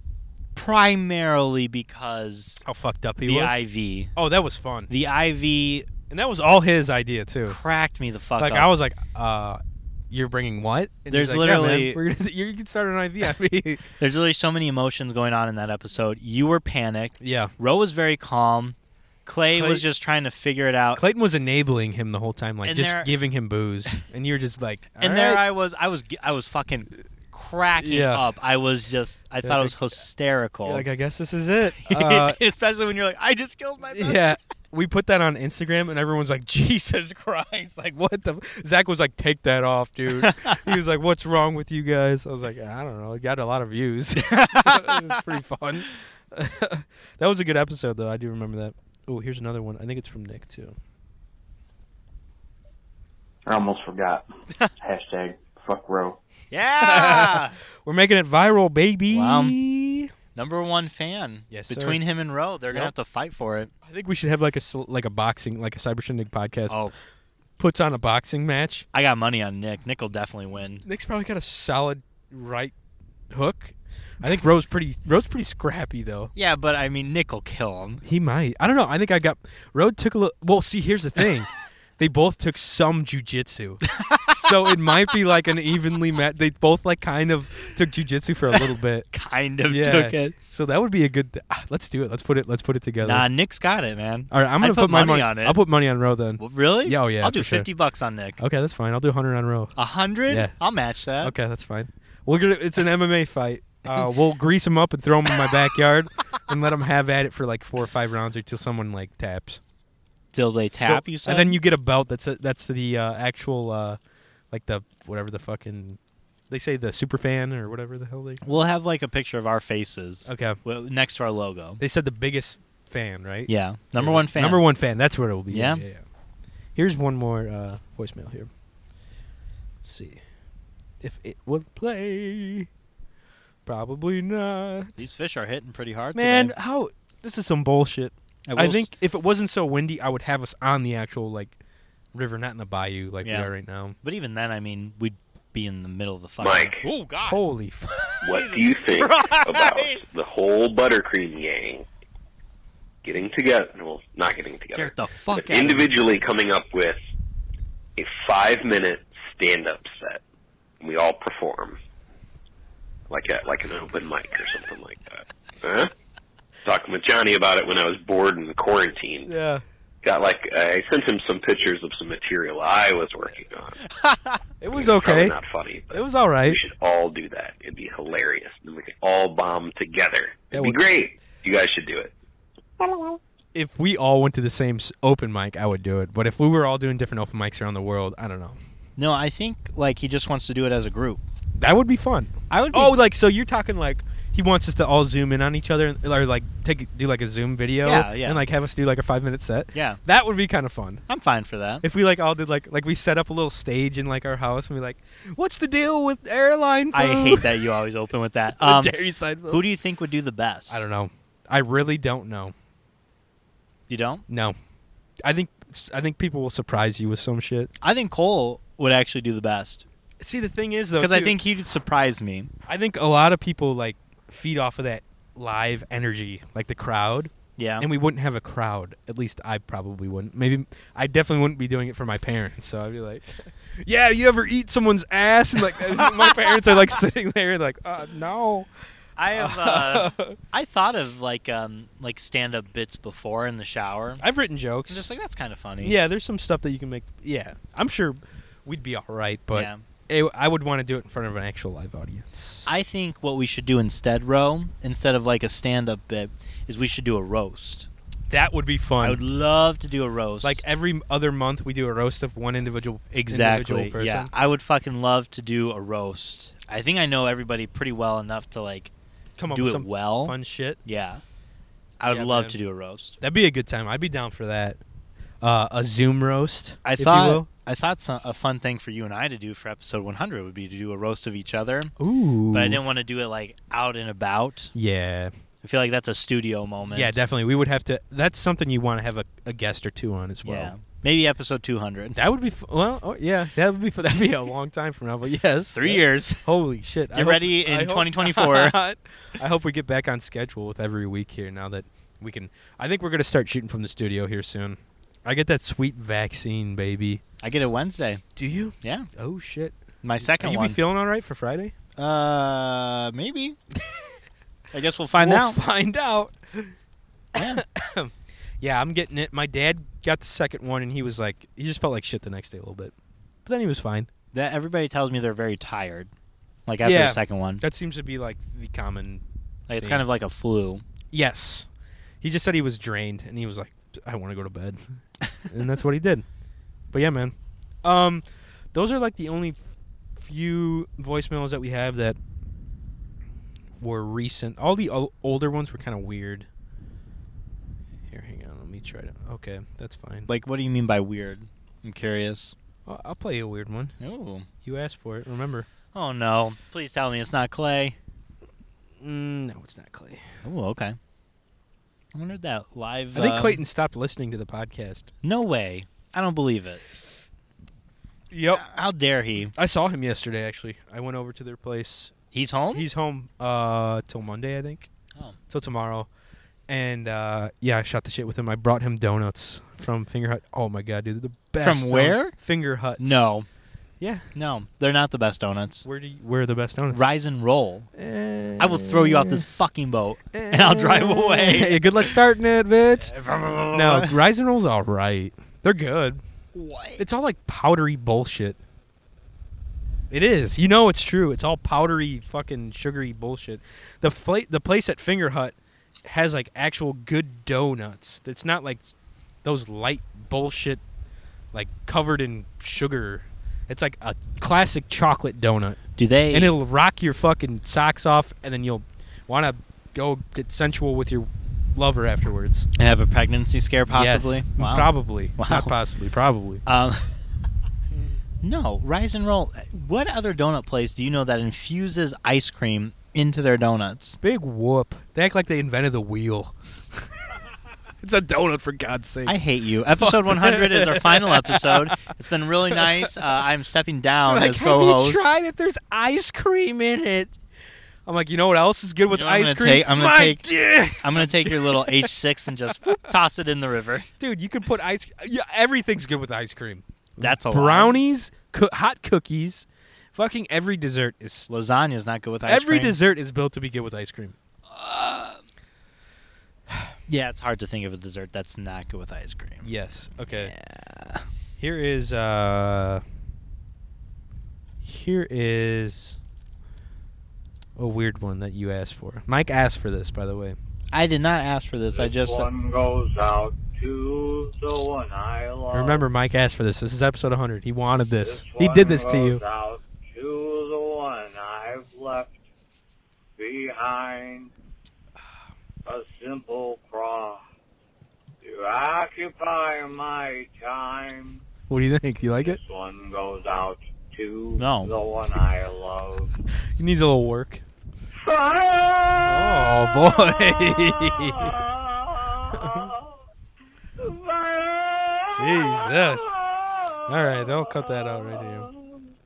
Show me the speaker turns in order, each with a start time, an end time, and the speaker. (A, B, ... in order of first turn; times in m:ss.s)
0:00.5-0:02.6 A
0:02.6-0:03.6 B
0:03.2-0:04.1 A
0:04.2-0:04.9 B
0:04.9-0:05.9 A
0:06.1-0:07.6 B
0:07.4-0:08.7 A
0:08.4-0:13.9 B
0:11.1-0:12.0 A
0:14.0-0:21.0 A
0:17.2-0:17.5 B
0:19.5-0:19.8 B
0:21.0-0:25.4 B
0:22.6-0:23.1 A
0:25.0-0:30.8 A
0:27.8-0:28.2 B
0:29.4-0:29.8 B
0:30.6-0:32.4 B
0:31.8-0:34.4 A
0:33.9-0:50.8 B
0:40.1-0:40.6 A
0:44.2-0:45.2 A
0:53.5-0:54.2 C
0:54.8-0:56.2 C
0:56.5-0:57.6 A
0:56.8-1:00.1 B
0:59.1-0:59.6 A
1:00.3-1:03.7 A
1:01.5-1:02.0 B
1:03.8-1:06.8 B
1:06.7-1:06.9 A
1:07.6-1:08.8 B
1:08.9-1:10.8 A
1:10.8-1:12.7 B
1:13.3-1:16.3 B
1:16.3-1:18.0 A
1:18.0-1:29.1 B
1:23.9-1:24.8 A
1:29.1-1:30.3 A
1:29.7-1:33.3 B
1:33.0-1:35.6 A
1:34.3-1:37.7 B
1:36.4-1:38.4 A
1:38.4-1:39.7 B
1:39.8-1:41.3 A
1:40.3-1:40.6 B
1:41.2-1:49.6 B
1:50.3-1:51.6 A
1:50.7-1:54.0 B
1:54.5-1:56.0 B
1:56.5-1:58.4 B
1:58.4-2:01.8 A
2:00.2-2:00.6 B
2:01.8-2:06.0 B
2:03.5-2:04.6 A
2:05.5-2:05.8 A
2:06.8-2:08.5 B
2:09.8-2:10.2 B
2:11.0-2:12.7 B
2:13.6-2:15.0 B
2:15.0-2:16.5 A
2:16.1-2:21.5 B
2:18.4-2:18.9 A
2:22.1-2:24.0 B
2:23.2-2:23.5 A
2:24.0-2:27.4 A
2:26.4-2:26.8 D
2:27.3-2:28.2 B
2:28.2-2:31.8 D
2:28.2-2:30.0 A
2:33.0-2:37.0 D
2:34.7-2:36.0 A
2:38.0-2:40.2 D
2:40.8-2:41.8 D
2:43.1-2:45.9 D
2:46.6-2:49.3 D
2:49.3-2:49.6 B
2:50.0-2:53.9 D
2:53.9-2:54.4 A
2:54.6-2:55.4 B
2:54.7-3:02.1 D
2:55.9-2:56.6 B
3:00.5-3:00.8 B
3:02.8-3:03.1 A
3:03.5-3:08.6 B
3:09.0-3:11.2 A
3:11.6-3:21.0 B
3:12.5-3:13.0 A
3:17.8-3:18.4 A
3:19.7-3:20.0 A
3:21.1-3:21.8 A
3:21.8-3:27.5 B
3:26.9-3:28.9 A
3:28.6-3:29.6 B
3:29.5-3:30.8 A
3:30.7-3:32.5 B
3:33.9-3:34.2 A
3:34.3-3:34.6 B
3:35.2-3:37.7 B
3:37.8-3:39.8 A
3:40.2-3:41.4 B
3:41.0-3:42.5 A
3:42.7-3:58.7 B
3:47.6-3:47.9 A
3:55.9-3:56.6 A
3:59.2-4:04.2 A
3:59.3-4:00.4 B
4:04.2-4:05.1 B
4:04.9-4:06.0 A
4:05.8-4:12.7 B
4:09.5-4:09.8 A
4:12.6-4:17.9 A
4:18.3-4:19.2 B
4:19.0-4:20.6 A
4:20.4-4:24.3 B
4:23.1-4:28.9 A
4:29.4-4:30.8 B
4:29.5-4:31.2 A
4:32.0-4:33.2 A
4:32.1-4:32.6 B
4:33.2-4:34.8 B
4:35.4-4:37.5 B
4:36.8-4:41.9 A
4:42.0-4:42.8 B
4:42.5-4:44.7 A
4:44.7-4:45.3 B
4:45.6-4:47.2 A
4:46.9-4:50.7 B
4:50.4-4:52.2 A
4:52.2-5:07.2 B
4:55.7-4:56.5 A
4:57.1-4:58.8 A
5:07.4-5:08.2 A
5:08.4-5:11.7 B
5:08.8-5:09.1 A
5:10.0-5:10.8 A
5:12.0-5:13.6 A
5:13.8-5:14.1 B
5:14.7-5:15.6 A
5:15.2-5:16.7 B
5:17.3-5:17.6 A
5:17.3-5:22.9 B
5:23.4-5:24.1 B
5:24.3-5:26.1 A
5:26.6-5:27.6 A
5:26.8-5:29.2 B
5:29.7-5:30.8 A
5:29.7-5:30.0 B
5:31.1-5:31.7 B
5:32.2-5:34.8 B
5:35.4-5:36.2 B
5:36.9-5:39.6 B
5:40.2-5:42.2 B
5:43.8-5:46.5 B
5:48.1-5:50.3 B
5:50.3-5:52.5 A
5:52.8-5:54.0 B
5:54.0-5:54.5 A
5:54.6-5:55.7 B
5:55.9-5:58.0 A
5:59.0-6:00.2 B
6:00.4-6:01.0 A
6:02.1-6:03.6 A
6:03.1-6:05.1 B
6:05.2-6:06.8 A
6:08.3-6:08.6 B
6:08.5-6:09.5 A
6:09.5-6:12.1 B
6:12.3-6:12.9 A
6:12.7-6:14.9 B
6:15.5-6:16.1 B
6:16.7-6:23.2 B
6:21.6-6:22.3 A
6:23.0-6:23.5 A
6:24.0-6:24.3 B
6:24.3-6:25.8 A
6:25.8-6:27.0 B
6:26.9-6:27.9 A
6:28.0-6:29.4 B
6:28.6-6:32.2 A
6:30.3-6:33.1 B
6:33.0-6:34.2 A
6:33.7-6:36.2 B
6:36.5-6:37.0 A
6:37.0-6:38.6 B
6:40.1-6:48.9 B
6:49.4-6:50.8 B
6:51.5-6:55.8 B
6:56.0-6:56.5 A
6:56.3-7:02.7 B
7:02.8-7:05.7 A
7:03.9-7:06.6 B
7:06.6-7:07.1 A
7:08.4-7:14.2 A
7:14.2-7:17.1 B
7:18.0-7:19.4 B
7:19.2-7:25.3 A
7:20.0-7:22.1 B
7:22.7-7:23.3 B
7:24.2-7:27.3 B
7:28.0-7:32.1 B
7:29.1-7:34.1 A
7:34.2-7:41.5 B
7:37.2-7:38.0 A
7:41.5-7:43.0 A
7:42.4-7:44.3 B
7:44.6-7:45.4 A
7:47.1-7:49.6 A
7:49.6-7:50.5 B
7:50.3-7:51.2 A
7:51.6-7:53.0 B
7:54.8-7:56.2 B
7:57.8-8:00.6 B
8:00.9-8:02.5 A
8:01.9-8:06.0 E
8:05.7-8:09.4 B
8:08.2-8:12.4 E
8:13.4-8:14.5 E
8:15.8-8:17.4 E
8:18.4-8:21.4 E
8:21.7-8:22.6 B
8:22.4-8:26.3 E
8:24.6-8:24.9 A
8:26.8-8:27.6 B
8:28.1-8:33.2 E
8:29.2-8:31.6 B
8:32.5-8:32.9 B
8:34.0-8:39.1 E
8:35.2-8:36.4 B
8:37.0-8:38.7 B